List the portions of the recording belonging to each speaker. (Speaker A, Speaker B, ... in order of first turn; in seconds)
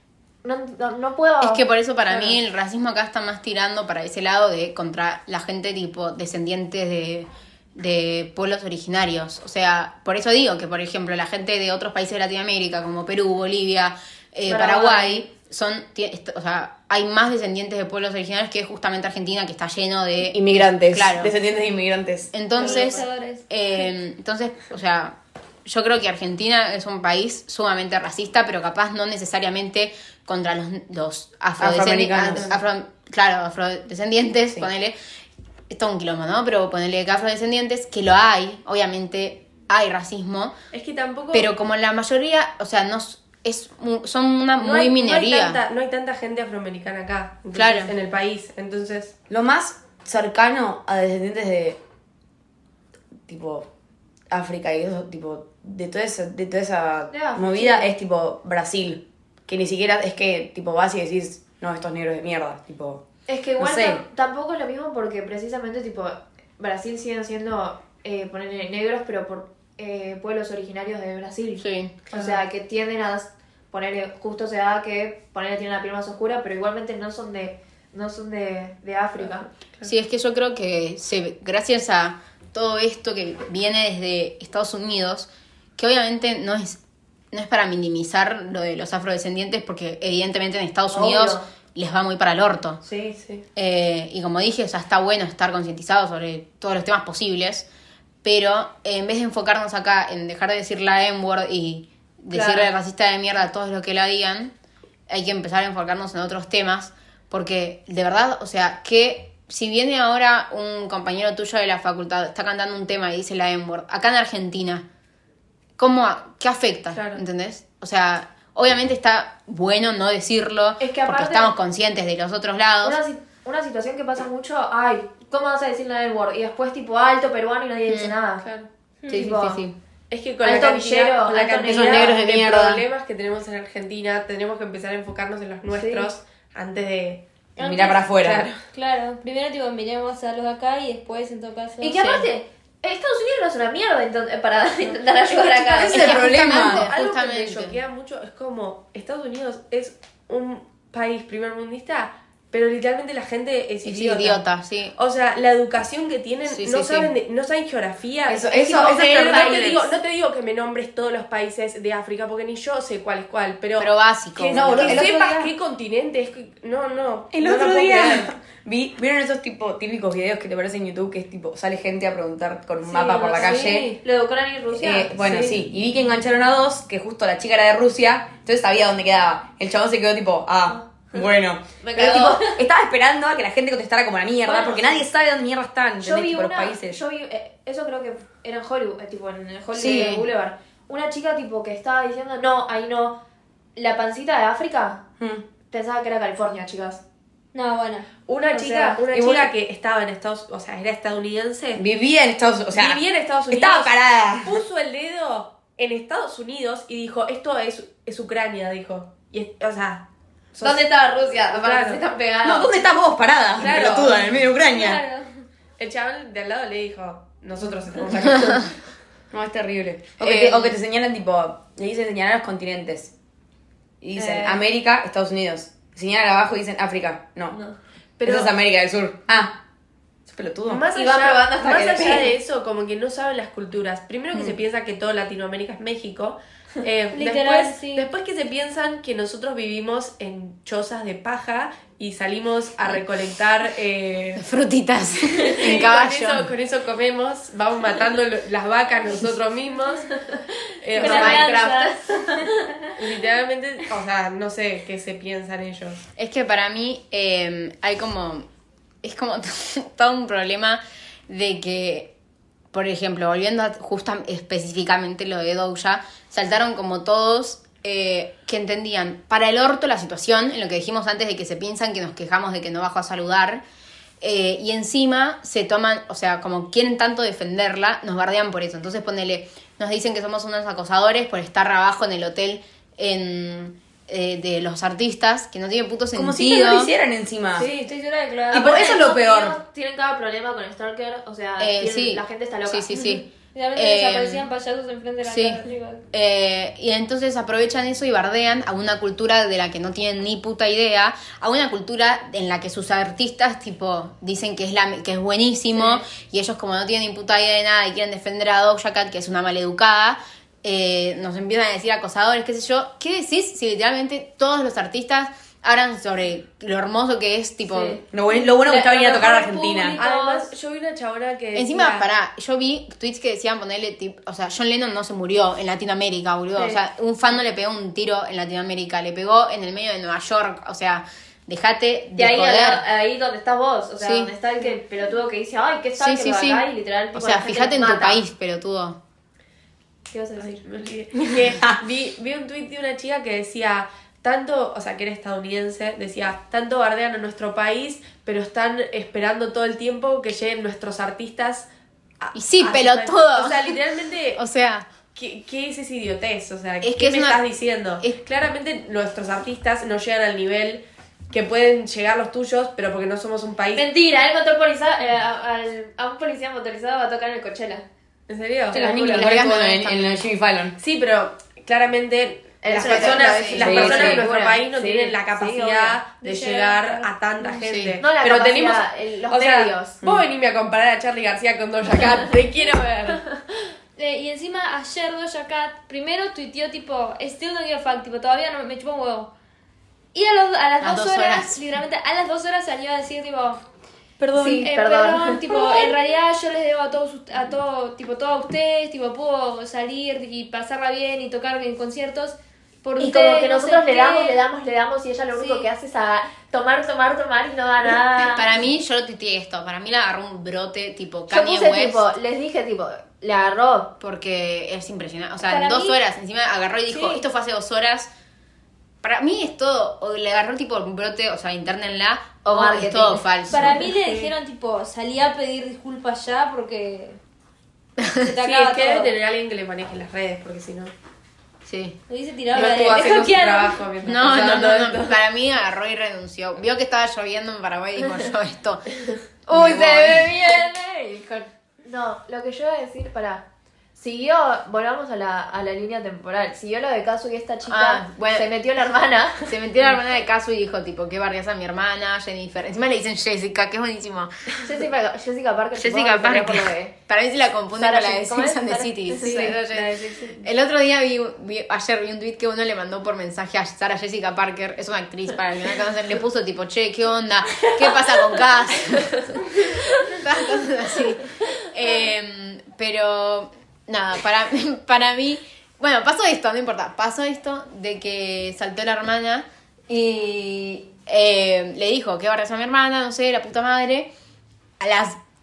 Speaker A: 0.4-1.6, 14.4-15.2, 57.1-57.9, 63.3-79.5, 90.9-91.4, 92.8-93.2, 102.3-102.7, 120.8-121.5, 122.8-128.4, 129.1-129.6, 130.4-132.1, 135.7-136.1, 141.8-146.4, 158.5-159.7, 172.9-175.6, 181.8-182.5, 184.4-185.0, 186.0-193.2, 193.8-195.0, 195.7-197.0, 198.5-199.0, 210.6-212.8, 224.2-224.6, 230.9-232.3, 250.9-252.5, 288.6-293.2, 332.1-338.2, 340.1-340.6, 363.7-367.9, 368.7-369.3, 372.6-376.0, 378.0-380.0, 394.3-395.9, 403.0-408.5, 411.3-413.9, 422.4-423.8, 439.5-449.5, 454.6-456.9, 457.7-459.6
Speaker B: 1.4-21.3, 22.3-35.0, 35.7-40.5, 41.3-45.6, 47.5-47.9, 71.6-72.0, 79.8-86.8, 87.3-92.8, 93.5-97.7, 98.2-104.5, 105.1-114.8, 115.8-123.0, 127.9-128.1, 129.1-129.8, 131.8-132.8, 142.0-142.2, 145.9-147.8, 153.8-154.9, 156.5-157.1, 163.8-165.1, 189.7-190.2, 220.2-220.8, 244.4-246.5, 256.2-258.4, 259.0-262.1, 262.7-273.6, 274.2-286.9, 291.6-294.5, 295.2-295.6, 296.1-318.0, 321.5-332.8, 334.0-334.3, 336.0-339.0, 352.3-353.8, 354.4-354.9, 356.8-357.4, 368.8-370.2, 372.8-374.2, 377.6-378.0, 390.8-391.6, 408.3-412.1, 414.0-418.1, 419.0-423.8, 428.0-428.3, 431.6-432.0, 434.0-438.9, 439.5-440.3, 447.6-448.5, 449.5-454.3, 455.8-484.1, 484.8-485.2
Speaker C: 2.1-2.4, 32.3-32.6, 40.7-41.5, 44.6-49.1, 72.1-72.4, 79.2-79.9, 93.2-93.4, 116.9-117.2, 128.4-128.7, 130.1-137.2, 137.8-138.6, 146.3-154.4, 155.0-168.3, 173.1-174.0, 198.3-201.8, 202.7-210.8, 211.5-212.0, 213.6-214.3, 215.8-218.7, 228.2-228.5, 230.7-244.4, 245.4-250.1, 250.8-251.6, 253.0-256.0, 287.6-287.9, 319.9-322.0, 340.4-351.7, 352.2-354.4, 355.1-363.9, 368.3-368.9, 370.8-383.2, 424.0-424.3, 428.4-430.9, 432.5-435.1, 459.2-460.3
Speaker D: 20.3-22.3, 31.6-32.5, 49.3-51.8, 53.3-53.7, 54.3-63.0, 63.6-64.0, 131.6-132.8, 137.6-138.5, 145.8-146.9, 158.3-159.9, 164.5-165.5, 167.3-173.9, 174.7-187.0, 195.2-195.4, 199.1-199.5, 201.8-203.0, 203.5-204.6, 212.4-215.0, 219.3-223.1, 224.0-227.6, 228.2-229.6, 230.2-230.8, 286.1-287.7, 288.5-289.6, 318.1-320.0, 368.7-370.8, 372.8-374.5, 394.2-394.5
Speaker E: 22.5-23.5, 137.6-138.0, 138.7-141.9, 197.5-198.1, 214.6-215.3, 237.1-238.1, 250.9-252.9, 287.6-289.0, 293.5-296.0, 318.3-320.5, 376.2-377.6, 384.0-389.3, 390.1-393.6, 394.3-404.4, 405.3-405.6, 415.4-416.0, 416.9-417.2, 423.5-427.2, 428.2-429.1, 432.1-433.8